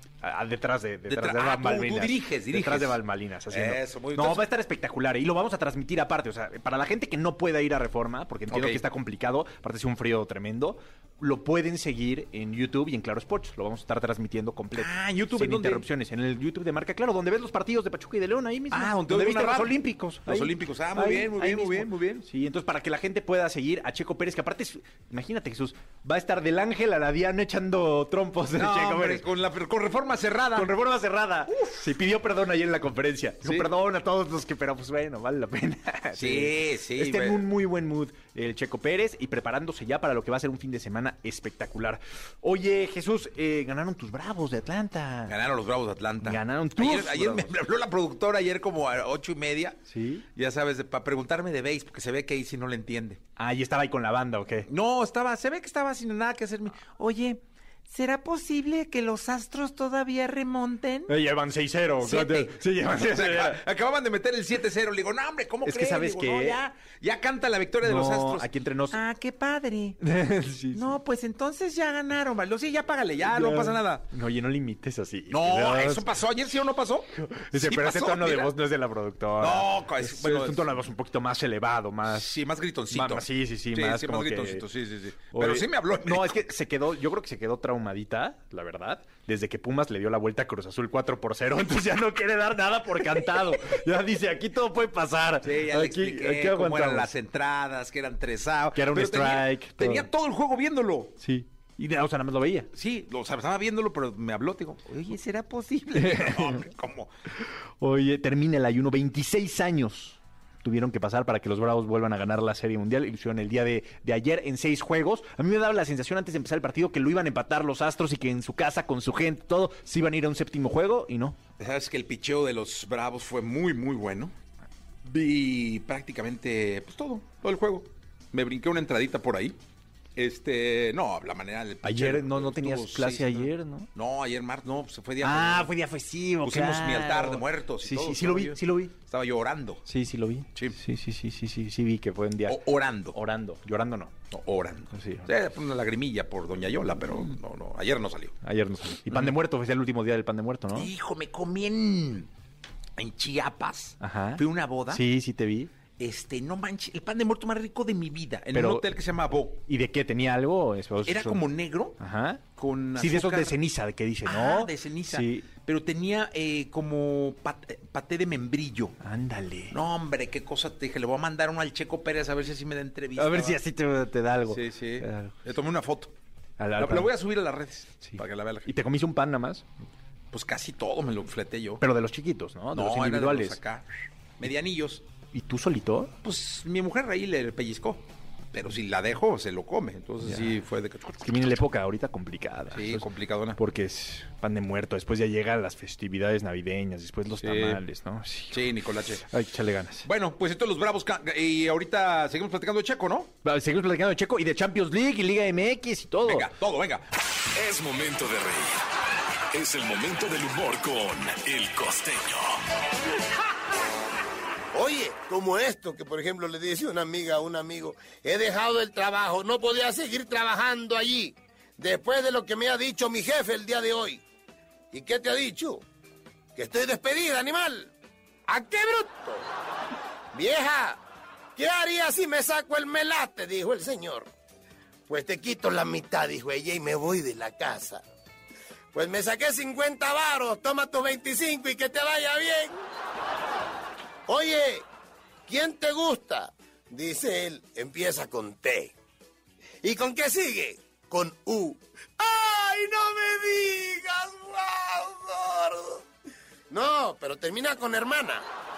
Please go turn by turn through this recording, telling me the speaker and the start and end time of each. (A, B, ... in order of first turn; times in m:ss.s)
0:00.2-0:29.2 A
0:01.1-0:03.0 B
0:03.5-0:04.5 B
0:08.5-0:08.8 B
0:14.7-0:15.8 B
0:18.7-0:22.3 B
0:28.6-0:30.7 B
0:30.5-0:45.4 A
0:31.5-0:31.8 B
0:33.4-0:33.7 B
0:36.2-0:37.4 B
0:45.3-0:49.8 B
0:46.2-0:47.6 A
0:49.9-0:50.3 A
0:50.4-0:53.2 B
0:53.4-0:54.7 A
0:54.7-1:01.2 B
1:01.1-1:03.6 A
1:02.0-1:10.0 B
1:05.6-1:06.6 A
1:07.8-1:09.0 A
1:10.0-1:10.9 A
1:10.7-1:14.1 B
1:13.2-1:16.1 A
1:15.3-1:18.5 B
1:17.2-1:22.3 A
1:19.4-1:20.7 B
1:22.1-1:26.5 B
1:22.9-1:24.6 A
1:25.3-1:37.1 A
1:35.4-1:41.2 B
1:38.8-1:40.1 A
1:41.2-1:42.7 A
1:42.7-1:47.1 B
1:46.0-1:46.6 A
1:47.4-2:01.4 A
2:01.6-2:04.3 B
2:05.0-2:09.6 B
2:10.2-2:15.7 B
2:11.8-2:13.9 A
2:15.2-2:18.9 A
2:16.4-2:19.9 B
2:19.9-2:22.6 A
2:22.5-2:23.2 B
2:23.1-2:24.1 A
2:24.3-2:28.4 B
2:24.9-2:25.3 A
2:28.4-2:30.9 A
2:30.7-2:32.3 B
2:33.0-2:35.0 B
2:34.0-2:35.7 A
2:36.0-2:39.6 B
2:38.5-2:38.9 A
2:39.6-2:41.4 A
2:41.0-2:42.0 B
2:42.0-2:42.4 A
2:42.6-2:43.6 B
2:43.0-2:45.5 A
2:44.2-2:49.0 B
2:49.0-2:49.8 A
2:49.7-2:53.6 B
2:53.2-2:55.4 A
2:54.5-2:56.1 B
2:56.6-2:57.1 A
2:56.8-2:58.7 B
2:58.0-2:59.6 A
3:00.3-3:01.8 B
3:01.8-3:03.6 A
3:02.7-3:03.8 B
3:04.4-3:05.0 B
3:05.3-3:06.1 A
3:06.2-3:11.6 B
3:10.2-3:10.6 A
3:11.2-3:18.8 A
3:12.7-3:13.6 B
3:17.4-3:17.8 B
3:18.5-3:19.3 B
3:19.3-3:20.1 A
3:20.0-3:23.3 B
3:23.4-3:26.5 A
3:26.2-3:27.1 B
3:27.5-3:28.8 C
3:29.5-3:32.6 C
3:34.7-3:44.2 D
3:44.9-3:45.8 D
3:46.6-3:47.9 D
3:48.5-3:49.4 D
3:50.3-3:51.0 D
3:51.6-3:54.3 D
3:55.1-3:58.0 D
3:58.9-4:02.8 D
4:04.3-4:04.8 D
4:05.5-4:08.9 D
4:09.8-4:16.0 D
4:16.7-4:18.4 D